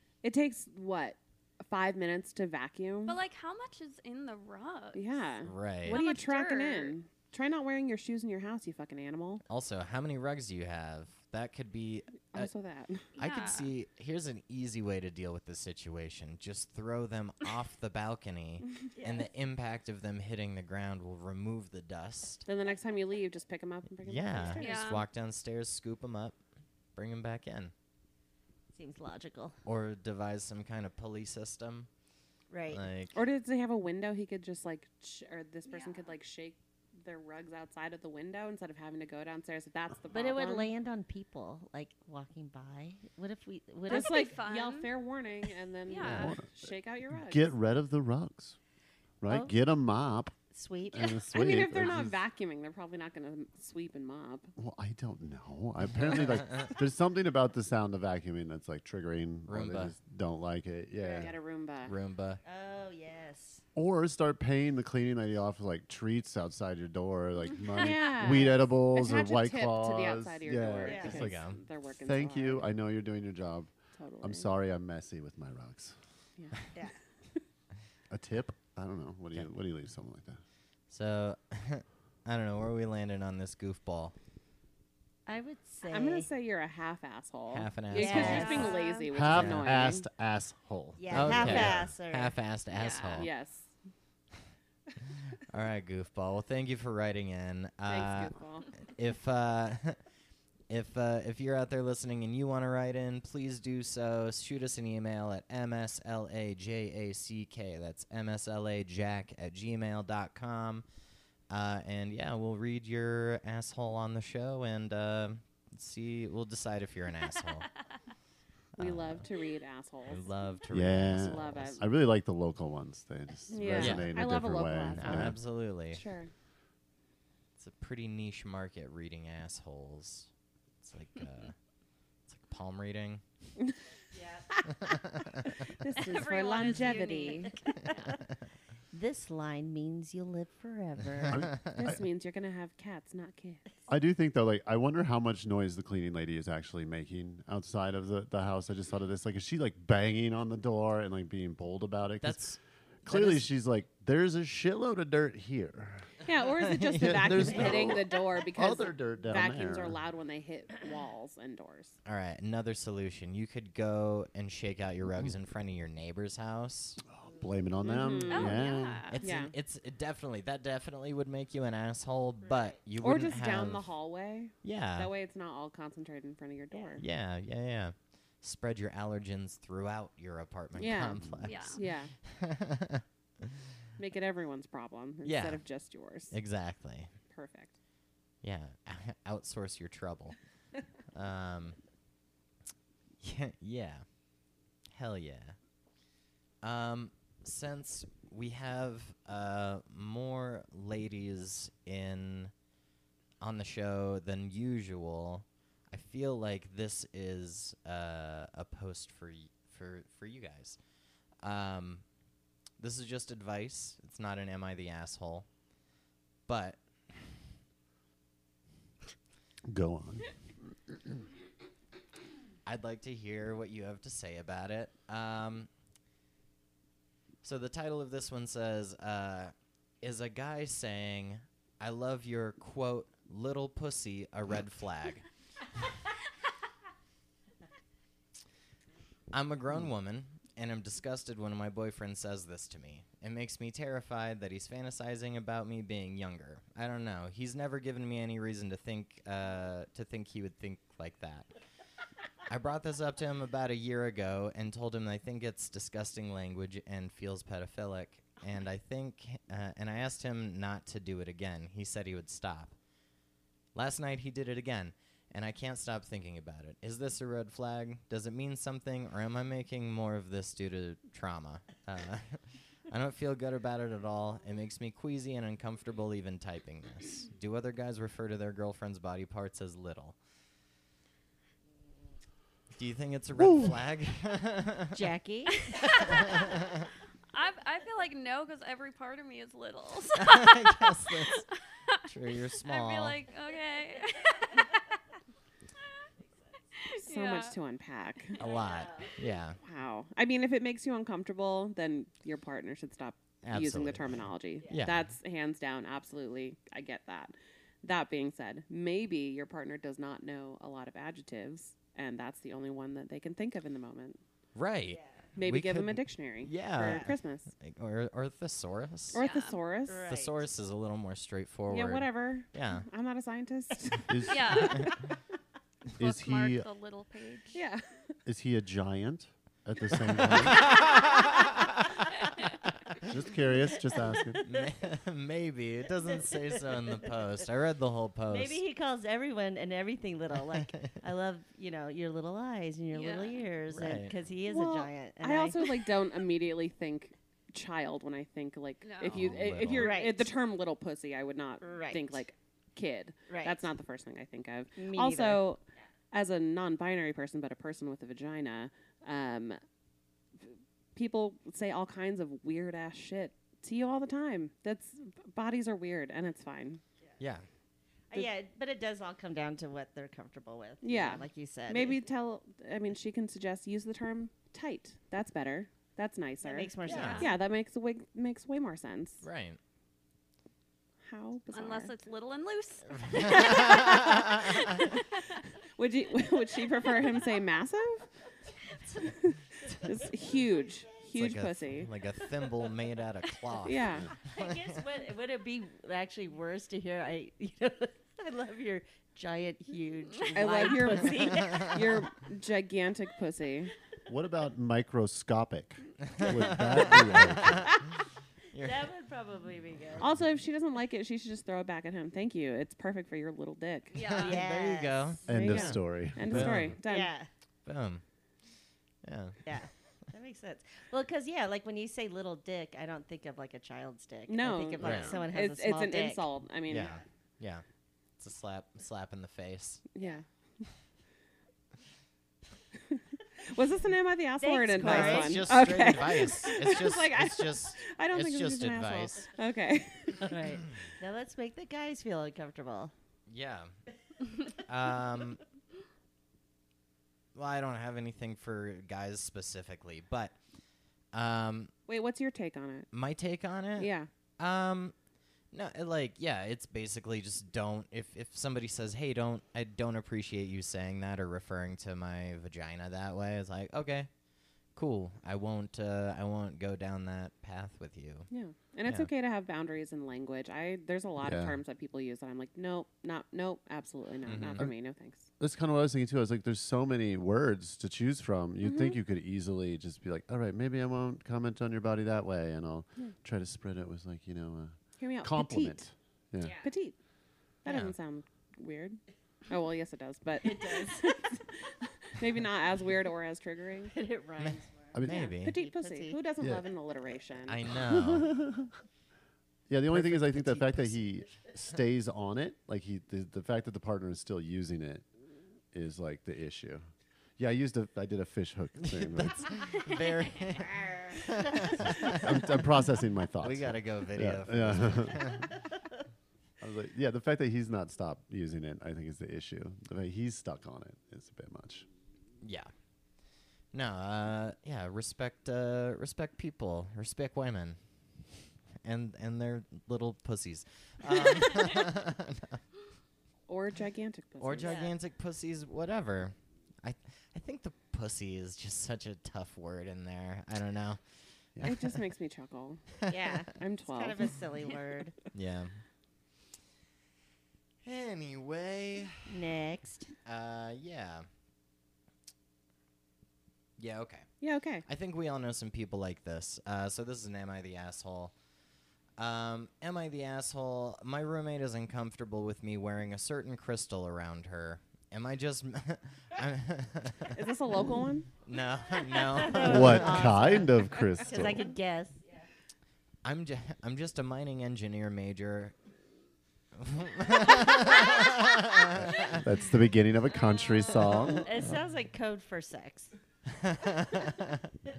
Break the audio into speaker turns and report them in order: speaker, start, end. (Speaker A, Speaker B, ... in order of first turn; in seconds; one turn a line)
Speaker A: 0.2-3.2
Speaker B: 3.1-5.2
Speaker A: 4.9-9.4
Speaker C: 5.5-6.0
Speaker B: 5.9-7.0
Speaker C: 9.5-12.5
Speaker A: 12.3-13.1
Speaker C: 13.2-22.5
Speaker B: 13.2-13.7
Speaker D: 19.0-19.3
Speaker A: 22.5-25.0
Speaker C: 24.0-26.4
Speaker B: 24.5-25.0
Speaker C: 27.0-27.7
Speaker D: 28.7-29.6
Speaker C: 29.6-31.9
Speaker D: 32.5-32.8
Speaker C: 32.7-33.2
Speaker A: 33.1-40.7
Speaker B: 35.7-36.1
Speaker D: 40.1-44.4
Speaker A: 43.9-47.5
Speaker B: 43.9-44.9
Speaker B: 45.9-46.3
Speaker E: 46.0-46.5
Speaker E: 47.1-48.6
Speaker E: 49.2-50.4
Speaker D: 49.3-49.5
Speaker D: 50.5-51.2
Speaker E: 50.9-52.2
Speaker A: 51.1-54.5
Speaker E: 54.6-61.4
Speaker C: 59.5-59.9
Speaker A: 61.0-61.9
Speaker C: 61.9-62.4
Speaker D: 62.5-63.6
Speaker E: 63.8-71.4
Speaker B: 67.7-68.0
Speaker A: 67.7-72.7
Speaker D: 70.8-71.2
Speaker C: 71.1-71.6
Speaker E: 72.0-76.0
Speaker A: 73.9-74.5
Speaker A: 76.4-76.7
Speaker E: 78.1-80.4
Speaker C: 80.9-84.2
Speaker D: 85.3-86.3
Speaker A: 85.9-90.1
Speaker C: 87.5-88.7
Speaker D: 87.9-88.9
Speaker B: 88.3-89.1
Speaker E: 89.1-91.9
Speaker C: 89.2-89.8
Speaker D: 91.0-92.4
Speaker C: 91.1-93.3
Speaker B: 92.7-93.3
Speaker A: 93.1-93.7
Speaker C: 95.5-100.0
Speaker A: 97.9-98.7
Speaker C: 100.7-110.8
Speaker C: 111.5-117.7
Speaker C: 118.8-119.3
Speaker A: 118.8-120.3
Speaker C: 120.1-121.8
Speaker E: 120.7-125.4
Speaker A: 121.1-121.8
Speaker A: 123.5-125.4
Speaker C: 123.8-124.1
Speaker C: 124.9-126.0
Speaker A: 125.9-126.3
Speaker C: 127.6-130.3
Speaker C: 130.8-131.6
Speaker C: 132.3-133.2
Speaker D: 134.1-134.5
Speaker C: 134.7-135.6
Speaker A: 135.5-137.6
Speaker B: 136.0-137.5
Speaker D: 136.7-137.0
Speaker D: 137.7-138.2
Speaker D: 138.9-141.5
Speaker C: 141.3-141.8
Speaker E: 141.3-142.0
Speaker A: 141.7-143.8
Speaker E: 143.9-152.4
Speaker C: 152.2-153.5
Speaker E: 153.1-156.2
Speaker A: 156.2-162.0
Speaker C: 156.6-157.6
Speaker E: 156.9-160.0
Speaker C: 162.1-167.0
Speaker E: 167.1-169.1
Speaker A: 167.8-169.5
Speaker B: 168.3-169.2
Speaker C: 169.1-173.9
Speaker D: 172.4-172.8
Speaker A: 173.0-177.0
Speaker C: 174.6-175.1
Speaker D: 176.7-177.0
Speaker C: 177.0-183.6
Speaker A: 180.8-182.1
Speaker B: 181.5-181.8
Speaker A: 184.0-186.3
Speaker C: 185.2-185.6
Speaker C: 186.3-187.2
Speaker A: 187.2-187.7
Speaker C: 188.4-190.4
Speaker C: 191.1-191.8
Speaker C: 193.2-194.1
Speaker C: 194.9-195.6
Speaker C: 196.6-202.5
Speaker C: 203.4-210.8
Speaker C: 211.4-212.1
Speaker C: 212.8-215.5
Speaker C: 216.5-216.8
Speaker E: 219.7-220.3
Speaker C: 222.7-225.7
Speaker C: 227.4-235.3
Speaker C: 239.3-251.5
Speaker C: 252.5-262.8
Speaker C: 263.8-280.2
Speaker C: 282.8-285.0
Speaker E: 283.4-283.8
Speaker D: 284.9-286.1
Speaker B: 285.6-286.3
Speaker C: 286.1-286.9
Speaker B: 287.3-291.2
Speaker C: 290.1-291.5
Speaker C: 292.0-293.2
Speaker B: 292.6-294.8
Speaker B: 296.8-297.6
Speaker A: 296.9-298.4
Speaker C: 298.4-299.6
Speaker D: 298.4-299.1
Speaker A: 299.6-314.2
Speaker C: 303.4-305.1
Speaker C: 314.6-319.2
Speaker D: 314.9-315.3
Speaker A: 315.4-317.5
Speaker A: 319.1-320.1
Speaker B: 319.1-319.6
Speaker D: 319.9-320.4
Speaker C: 320.1-322.9
Speaker A: 321.7-325.1
Speaker E: 324.1-324.8
Speaker B: 324.3-325.0
Speaker B: 325.9-327.6
Speaker E: 326.0-326.6
Speaker A: 327.5-327.9
Speaker E: 328.3-330.8
Speaker C: 330.2-332.1
Speaker E: 333.0-334.4
Speaker C: 334.4-338.6
Speaker D: 338.3-345.9
Speaker B: 342.9-343.4
Speaker C: 343.7-344.2
Speaker A: 344.5-355.6
Speaker B: 348.8-349.2
Speaker C: 349.1-349.9
Speaker D: 349.8-350.3
Speaker D: 351.6-352.2
Speaker D: 353.3-353.6
Speaker D: 354.8-355.4
Speaker A: 356.1-359.6
Speaker A: 360.4-366.8
Speaker C: 367.2-367.5
Speaker D: 368.1-372.0
Speaker A: 370.8-379.2
Speaker D: 376.4-377.3
Speaker C: 376.9-377.3
Speaker B: 377.0-377.3
Speaker C: 379.2-379.6
Speaker A: 381.0-381.9
Speaker B: 381.5-385.2
Speaker C: 383.0-384.6
Speaker A: 383.4-384.3
Speaker A: 385.8-388.1
Speaker A: 389.0-391.9
Speaker C: 391.1-394.8
Speaker A: 393.6-394.1
Speaker D: 394.3-402.1
Speaker A: 400.3-403.7
Speaker E: 404.1-407.8
Speaker C: 406.1-408.0
Speaker C: 408.5-408.9
Speaker D: 408.6-410.1
Speaker A: 410.0-414.2
Speaker B: 413.9-414.4
Speaker C: 414.0-416.8
Speaker D: 414.1-415.3
Speaker E: 415.3-416.7
Speaker A: 415.3-417.1
Speaker D: 416.8-417.3
Speaker C: 417.6-418.0
Speaker C: 419.0-419.4
Speaker D: 419.4-426.3
Speaker A: 424.3-427.0
Speaker C: 424.8-425.2
Speaker C: 426.7-427.6
Speaker C: 428.2-429.8
Speaker A: 429.9-430.2
Speaker A: 432.9-440.4
Speaker D: 434.4-435.4
Speaker C: 434.8-439.3
Speaker D: 440.2-442.9
Speaker C: 443.3-443.7
Speaker C: 444.5-445.4
Speaker C: 447.4-450.4
Speaker C: 451.1-451.7
Speaker A: 451.9-452.9
Speaker C: 452.9-454.9
Speaker A: 453.8-454.1
Speaker C: 455.5-464.1
Speaker C: 464.8-468.3
Speaker A: 468.3-475.3
Speaker E: 471.2-471.6
Speaker C: 474.2-474.6
Speaker E: 475.4-486.6
Speaker A: 478.6-479.0
Speaker A: 485.0-485.8
Speaker D: 486.4-486.7
Speaker A: 486.5-487.0
Speaker A: 487.6-493.9
Speaker C: 487.7-488.0
Speaker D: 490.4-491.3
Speaker D: 493.9-496.2
Speaker C: 494.4-495.6
Speaker E: 494.9-495.3
Speaker A: 495.1-497.6
Speaker E: 496.4-496.7
Speaker C: 497.4-498.3
Speaker E: 497.9-498.7
Speaker E: 499.7-505.1
Speaker D: 499.9-500.9
Speaker E: 505.7-506.8
Speaker E: 507.4-509.6
Speaker C: 508.8-512.6
Speaker E: 511.8-515.6
Speaker C: 513.4-515.5
Speaker E: 516.6-521.9
Speaker C: 522.4-522.7
Speaker C: 523.7-527.8
Speaker C: 528.8-532.6
Speaker A: 533.5-534.8
Speaker C: 534.4-541.0
Speaker D: 534.6-534.9
Speaker E: 541.6-542.0
Speaker A: 541.6-542.8
Speaker D: 543.1-545.1
Speaker A: 543.5-544.4
Speaker C: 545.3-545.8
Speaker C: 547.8-549.3
Speaker D: 549.3-550.1
Speaker C: 550.2-551.3
Speaker C: 553.8-554.3
Speaker A: 554.4-554.9
Speaker C: 554.9-558.3
Speaker C: 559.2-567.4
Speaker A: 567.3-568.3
Speaker C: 568.5-570.6
Speaker D: 569.0-572.2
Speaker E: 569.5-571.7
Speaker C: 573.2-575.8
Speaker C: 576.7-579.5
Speaker E: 579.1-581.6
Speaker B: 580.5-581.1
Speaker D: 581.4-583.1
Speaker C: 583.5-584.8